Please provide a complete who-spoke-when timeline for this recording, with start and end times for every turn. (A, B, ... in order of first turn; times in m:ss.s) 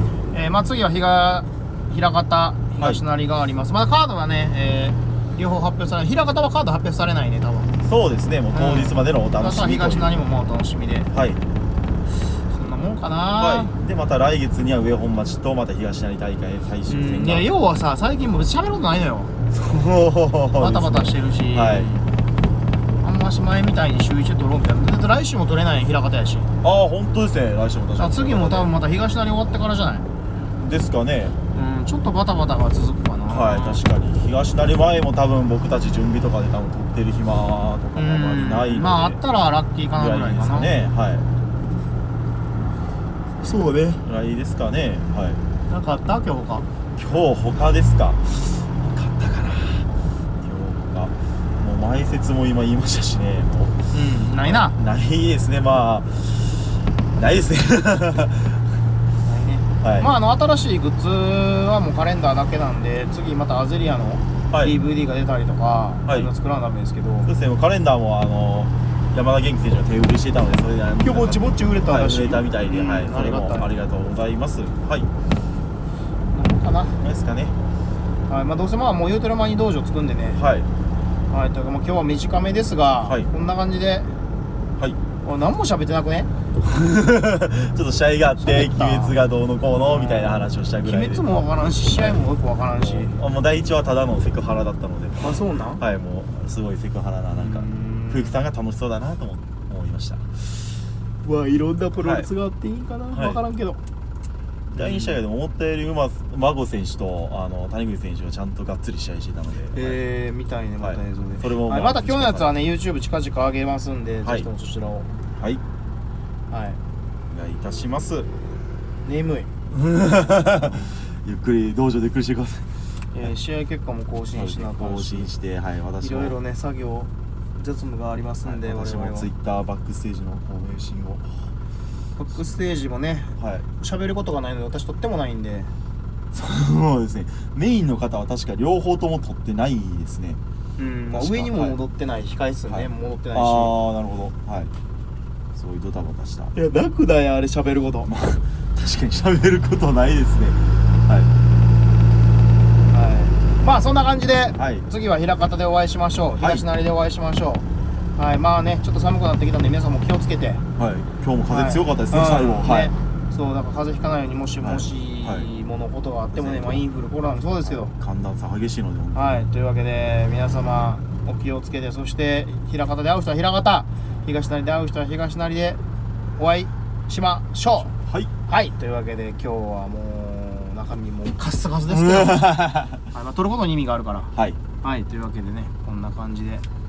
0:00.3-0:07.7 A
0:07.8-0:10.2 B
0:08.5-0:11.1 A
0:11.1-0:11.4 B
0:12.5-0:13.7 A
0:13.4-0:17.5 B
0:16.9-0:19.3 A
0:19.5-0:21.9 B
0:20.5-0:22.1 A
0:23.0-0:26.5 A
0:26.6-0:28.7 B
0:28.0-0:30.1 A
0:30.6-0:31.4 B
0:31.5-0:33.8 A
0:33.3-0:39.2 B
0:38.0-0:40.8 A
0:39.9-0:41.3 B
0:43.4-0:44.0 A
0:44.0-0:45.4 B
0:45.7-0:46.7 A
0:47.0-0:49.9 B
0:50.4-0:53.9 B
0:53.9-0:54.8 A
0:54.4-0:58.7 B
0:59.2-1:07.3 A
0:59.8-1:00.1 B
1:04.5-1:04.8 B
1:06.1-1:06.3 B
1:07.2-1:15.1 B
1:11.0-1:13.7 A
1:16.3-1:17.0 A
1:17.0-1:17.6 B
1:18.3-1:20.4 A
1:20.4-1:20.7 B
1:21.3-1:24.1 A
1:23.0-1:23.3 B
1:25.2-1:26.3 A
1:26.6-1:40.3 B
1:28.4-1:29.2 A
1:29.8-1:33.2 A
1:35.2-1:35.8 A
1:37.3-1:38.4 A
1:41.2-1:43.8 A
1:42.0-1:42.3 B
1:43.1-1:43.4 B
1:44.7-1:45.2 A
1:44.8-1:50.0 B
1:49.7-1:55.1 A
1:50.8-1:52.6 B
1:54.2-1:54.5 B
1:55.4-1:55.6 B
1:56.5-1:56.8 A
1:57.3-1:58.3 B
1:59.0-1:59.5 A
1:59.7-2:02.7 B
2:03.1-2:05.3 A
2:04.3-2:06.4 B
2:06.0-2:09.3 A
2:08.4-2:11.5 B
2:12.2-2:15.7 A
2:13.4-2:13.7 B
2:16.3-2:20.4 B
2:20.8-2:23.7 A
2:21.1-2:21.8 B
2:22.7-2:24.7 B
2:25.6-2:26.5 B
2:26.5-2:28.1 A
2:28.1-2:31.3 B
2:32.9-2:40.6 A
2:34.6-2:34.9 B
2:36.4-2:36.7 B
2:40.8-2:42.9 B
2:41.5-2:47.9 A
2:44.6-2:45.5 B
2:46.3-2:46.8 B
2:47.6-2:49.5 B
2:49.2-2:55.8 A
2:56.4-2:57.9 A
2:58.1-2:58.3 B
2:58.5-3:06.6 A
3:01.9-3:03.0 B
3:04.4-3:04.6 B